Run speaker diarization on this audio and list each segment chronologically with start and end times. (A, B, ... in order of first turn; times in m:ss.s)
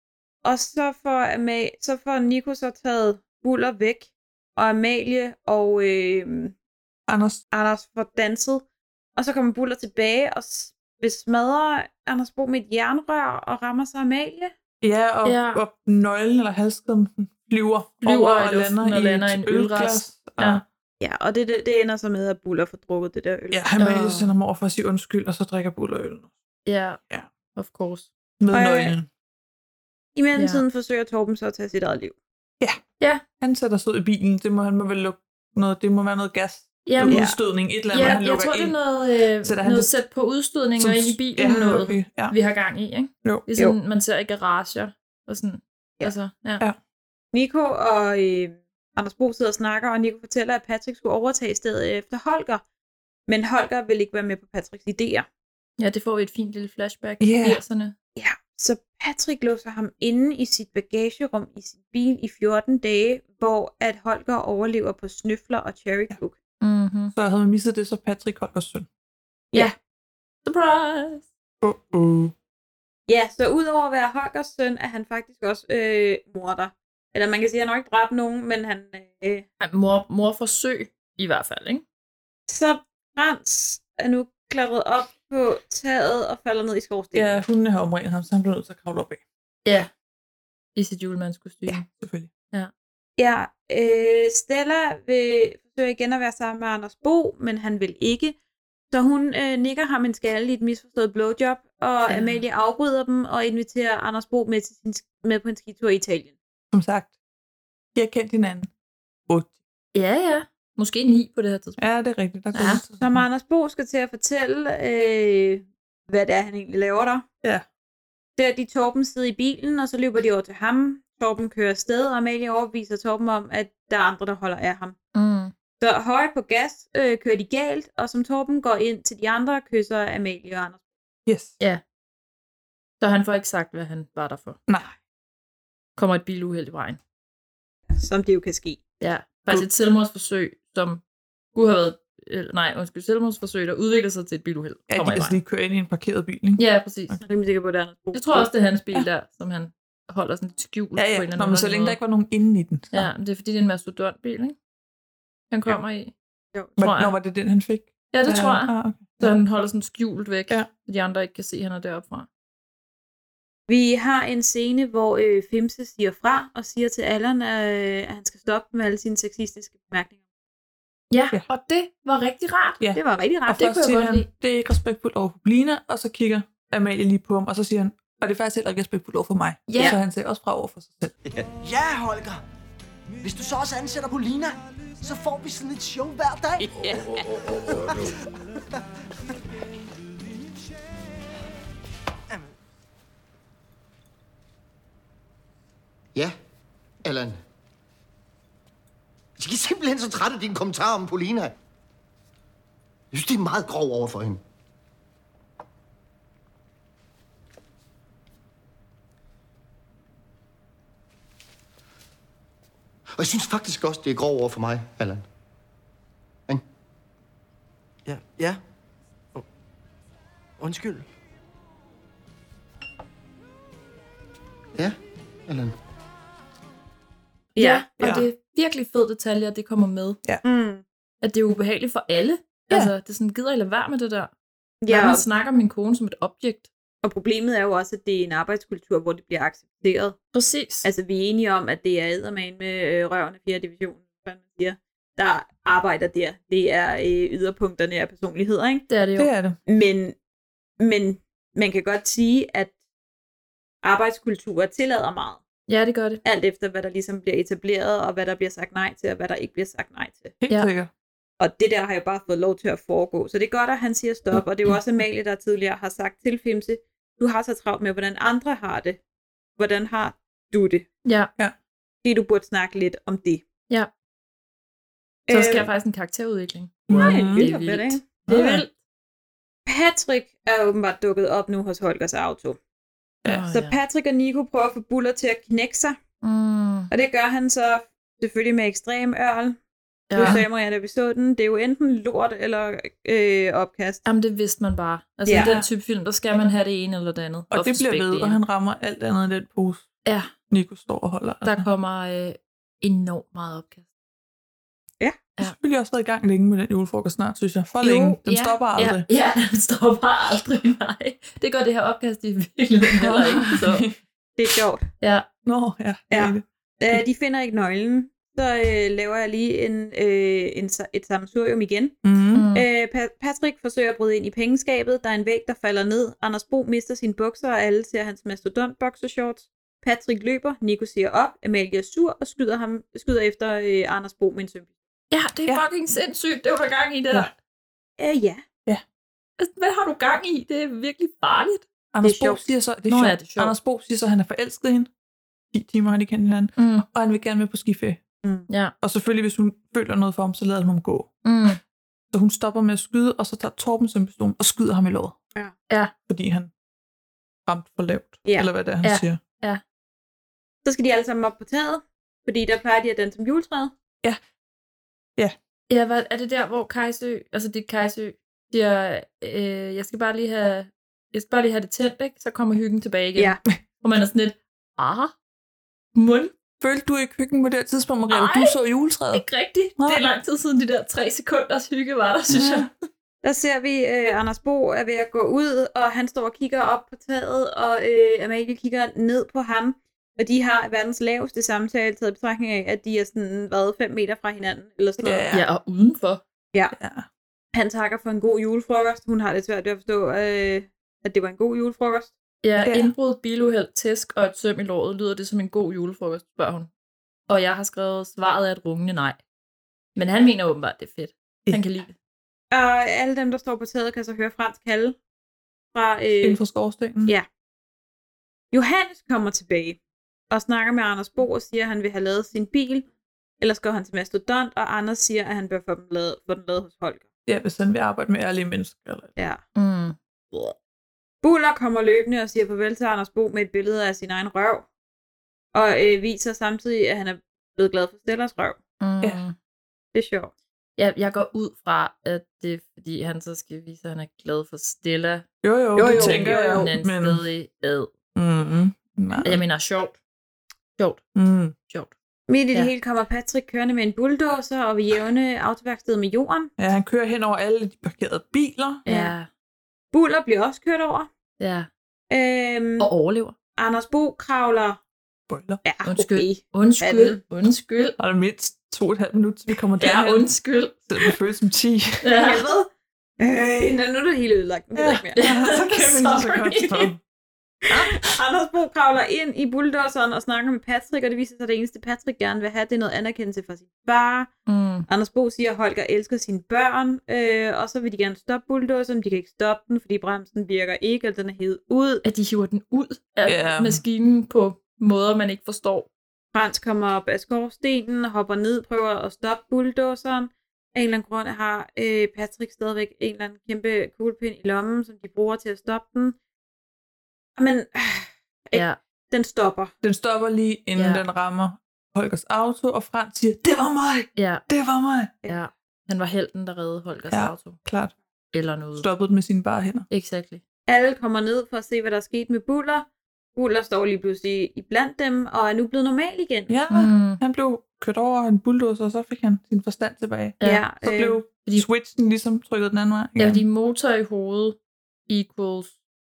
0:00.4-0:06.5 A
0:07.1-0:07.4 B
0:07.5-0:08.6 A
0:09.2-0:14.5 A
0:14.8-0:20.6 B
0:15.2-0:15.6 C
0:18.0-0:20.6 C
0:21.0-0:23.6 A
0:23.5-0:26.3 B
0:23.8-0:24.3 C
0:26.6-0:27.0 C
0:27.5-0:28.1 C
0:28.4-0:29.1 B
0:28.5-0:28.9 A
0:30.2-0:32.2 A
0:30.4-0:30.6 C
0:33.4-0:38.8 B
0:36.8-0:37.3 C
0:37.1-0:37.4 A
0:37.9-0:46.6 C
0:39.4-0:39.9 B
0:40.8-0:42.3 B
0:41.5-0:41.9 A
0:47.3-0:52.6 A
0:53.3-0:55.3 A
0:55.8-0:57.9 C
0:57.2-0:57.6 B
0:58.2-1:06.4 A
1:06.6-1:07.1 C
1:07.1-1:08.9 B
1:10.4-1:11.3 C
1:11.6-1:12.3 B
1:13.1-1:19.4 A
1:19.6-1:21.8 C
1:22.5-1:27.4 A
1:27.1-1:29.2 B
1:30.8-1:31.8 C
1:31.7-1:32.3 B
1:33.2-1:38.4 A
1:38.9-1:46.3 A
1:42.1-1:42.4 C
1:46.7-1:47.1 B
1:47.9-1:48.7 B
1:49.3-1:49.5 B
1:49.9-1:51.8 C
1:51.8-1:53.2 B
1:52.5-1:52.8 C
1:53.0-1:57.2 A
1:58.4-2:05.0 A
2:05.1-2:05.5 C
2:05.8-2:10.8 A
2:11.2-2:11.6 B
2:13.0-2:14.6 C
2:16.0-2:17.0 C
2:18.0-2:18.8 A
2:19.0-2:21.0 C
2:21.5-2:25.4 C
2:24.9-2:27.2 B
2:26.6-2:27.2 C
2:27.2-2:28.5 A
2:28.1-2:32.0 C
2:31.0-2:33.1 B
2:32.9-2:34.6 C
2:35.5-2:36.1 C
2:36.8-2:39.3 B
2:36.8-2:37.1 C
2:38.1-2:42.3 C
2:43.7-2:50.2 A
2:51.1-2:52.8 C
2:52.8-3:01.1 B
2:53.0-2:53.6 A
2:53.6-2:54.3 C
2:59.7-3:00.0 C
3:01.6-3:02.4 D
3:03.2-3:07.0 D
3:17.0-3:17.4 E
3:19.4-3:21.5 E
3:23.1-3:24.4 E
3:33.2-3:35.2 E
3:38.1-3:38.6 D
3:44.8-3:45.7 E
3:47.6-3:48.0 A
3:47.6-3:50.2 C
3:48.0-3:48.2 B
3:50.4-3:50.8 A
3:51.2-3:54.3 C
3:54.8-3:55.2 A
3:54.9-3:56.7 C
3:57.0-4:00.2 A
4:00.3-4:00.9 C
4:00.8-4:08.9 A
4:08.9-4:09.3 C
4:09.2-4:09.6 B
4:09.7-4:10.2 A
4:10.8-4:12.7 A
4:13.8-4:15.4 A
4:15.7-4:16.2 C
4:16.2-4:20.4 A
4:20.4-4:20.9 B
4:21.4-4:29.0 A
4:29.6-4:30.9 A
4:31.0-4:31.3 C
4:32.0-4:33.4 A
4:35.3-4:35.7 A
4:35.3-4:38.7 C
4:36.9-4:37.5 B
4:36.9-4:38.0 A
4:38.3-4:38.6 B
4:39.6-4:42.6 A
4:43.2-4:43.8 C
4:43.5-4:46.0 A
4:46.2-4:46.9 C
4:46.9-4:49.6 A
4:50.1-4:50.4 C
4:50.1-4:54.0 A
4:50.2-4:50.4 B
4:54.0-4:58.4 C
4:55.2-4:55.6 A
4:55.4-4:55.7 B
4:57.5-4:59.9 B
5:00.0-5:00.3 C
5:00.5-5:01.7 B
5:01.4-5:03.8 C
5:05.4-5:09.0 B
5:07.8-5:13.9 C
5:13.0-5:13.9 B
5:14.4-5:14.8 A
5:15.0-5:15.3 C
5:15.4-5:17.0 B
5:16.1-5:22.0 A
5:22.0-5:22.5 B
5:22.3-5:22.7 C
5:22.5-5:34.7 A
5:35.1-5:37.3 C
5:38.0-5:38.4 A
5:39.4-5:41.6 C
5:41.9-5:44.9 B
5:42.0-5:42.4 A
5:42.9-5:43.6 C
5:45.5-5:48.0 B
5:46.6-5:46.8 C
5:48.2-5:48.5 A
5:48.5-5:48.7 C
5:48.8-5:51.1 B
5:51.2-5:51.6 C
5:52.1-5:55.2 B
5:56.1-5:56.5 B
5:57.5-5:59.2 B
5:58.8-5:59.6 C
6:00.6-6:03.7 A
6:05.7-6:15.1 C
6:15.9-6:16.3 C
6:16.6-6:19.2 B
6:18.1-6:18.5 C
6:19.1-6:22.7 C
6:19.8-6:20.0 B
6:22.3-6:22.7 B
6:23.2-6:35.2 A
6:35.0-6:35.5 B
6:35.3-6:36.2 C
6:36.7-6:37.0 B
6:37.5-6:42.1 A
6:42.4-6:46.7 C
6:42.6-6:42.9 B
6:47.3-6:49.2 C
6:50.0-6:51.9 C
6:51.4-6:51.8 B
6:52.5-6:55.0 A
6:55.7-6:56.4 A
6:56.2-6:57.1 B
6:58.5-6:59.8 A
7:00.3-7:02.9 A
7:03.4-7:07.0 A
7:07.2-7:09.1 B
7:09.6-7:10.5 C
7:11.2-7:14.6 A
7:15.5-7:18.6 A
7:18.8-7:19.4 C
7:19.9-7:20.3 A
7:20.8-7:25.2 C
7:25.4-7:27.2 B
7:25.8-7:26.7 A
7:25.8-7:27.9 C
7:28.1-7:29.4 B
7:29.2-7:30.0 C
7:30.8-7:31.0 C
7:31.1-7:31.5 B
7:32.3-7:36.5 A
7:36.6-7:38.8 B
7:38.8-7:39.1 A
7:38.8-7:39.3 C
7:39.9-7:41.1 A
7:41.4-7:41.7 C
7:42.1-7:42.9 A
7:42.8-7:43.3 C
7:43.6-7:44.8 A
7:45.3-7:45.6 B
7:45.6-7:47.2 A
7:45.8-7:48.0 C
7:48.0-7:50.3 B
7:49.8-7:50.8 C
7:50.9-7:52.1 B
7:52.0-7:52.4 C
7:52.2-7:52.7 A
7:53.2-7:55.2 A
7:54.7-7:57.0 B
7:55.2-7:56.9 C
7:57.7-7:58.0 B
7:57.7-8:04.3 A
8:04.5-8:04.8 C
8:04.9-8:12.0 A
8:12.0-8:15.9 C
8:13.2-8:13.8 B
8:16.3-8:26.2 A
8:27.4-8:29.7 A
8:29.8-8:35.1 B
8:30.8-8:31.0 C
8:34.2-8:34.4 C
8:35.2-8:37.6 C
8:37.1-8:37.9 B
8:38.3-8:38.9 C
8:38.8-8:39.9 B
8:39.9-8:40.4 C
8:40.7-8:46.5 A
8:46.5-8:53.4 B
8:46.7-8:47.2 C
8:50.4-8:51.2 A
8:53.2-8:54.6 C
8:55.1-8:55.7 C